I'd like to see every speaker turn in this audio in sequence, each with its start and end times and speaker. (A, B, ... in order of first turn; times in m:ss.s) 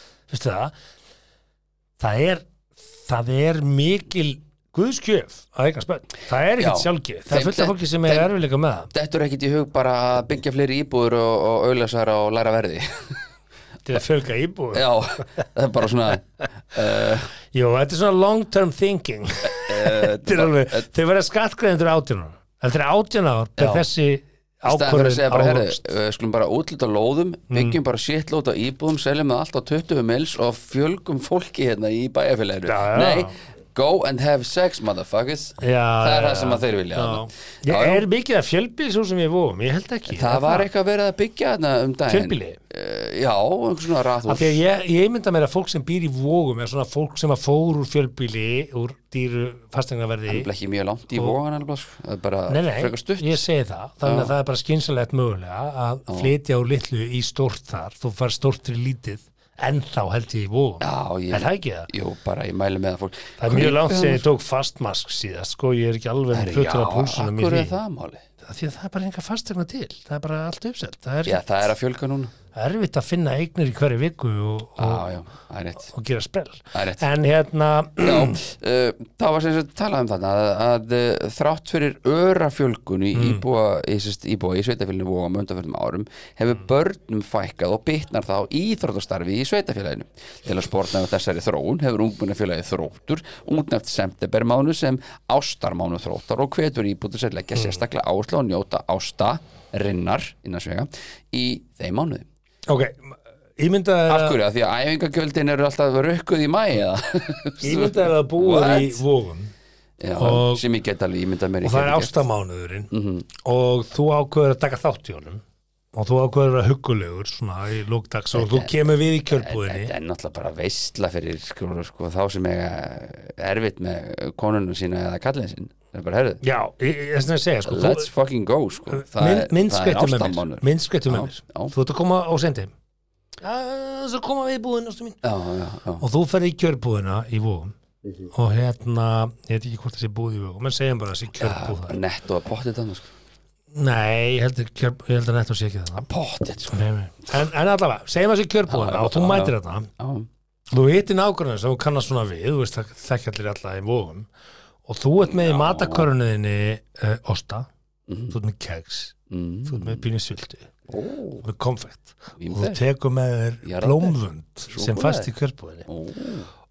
0:00.3-0:00.7 A
0:02.0-0:08.9 A
0:06.6-0:08.3 B
0:08.9-0:13.2 B
0:13.8-0:14.9 A
0:14.7-0:17.3 B
0:17.5-0:25.8 A
0:19.5-0:20.9 B
0:23.6-0:23.9 B
0:24.6-0:38.0 B
0:27.5-0:27.8 A
0:32.6-0:33.3 A
0:35.6-0:40.7 A
0:40.1-0:44.6 B
0:42.1-0:42.6 A
0:44.3-0:50.5 A
0:50.3-0:53.4 B
0:52.5-1:01.9 A
0:54.0-0:54.3 B
0:56.1-0:56.3 B
1:00.8-1:04.2 B
1:03.4-1:07.7 A
1:06.3-1:08.2 B
1:08.4-1:11.4 A
1:11.2-1:12.3 B
1:12.5-1:15.0 A
1:14.8-1:15.9 B
1:15.8-1:18.4 A
1:16.7-1:17.0 B
1:18.0-1:42.3 B
1:23.1-1:23.4 A
1:42.7-1:44.4 A
1:44.1-1:49.0 B
1:47.6-1:49.5 A
1:50.0-1:52.2 B
1:50.2-1:50.6 A
1:51.6-1:55.4 A
1:52.9-1:53.2 B
1:55.9-1:59.9 A
1:58.3-2:06.4 B
2:06.4-2:08.1 A
2:07.6-2:11.7 B
2:08.9-2:12.7 A
2:13.4-2:15.2 A
2:15.2-2:16.0 B
2:16.0-2:17.7 A
2:18.3-2:22.0 A
2:21.4-2:23.1 B
2:23.7-2:26.1 A
2:26.0-2:26.8 B
2:26.7-2:29.9 A
2:28.7-2:30.3 B
2:30.7-2:34.3 A
2:34.8-2:37.7 A
2:35.2-2:36.1 B
2:38.1-2:38.3 B
2:38.3-2:40.7 A
2:39.3-2:40.0 B
2:40.9-2:41.4 B
2:41.4-2:45.9 A
2:42.4-2:42.8 B
2:43.6-2:44.2 B
2:44.7-2:45.3 B
2:45.9-2:46.5 B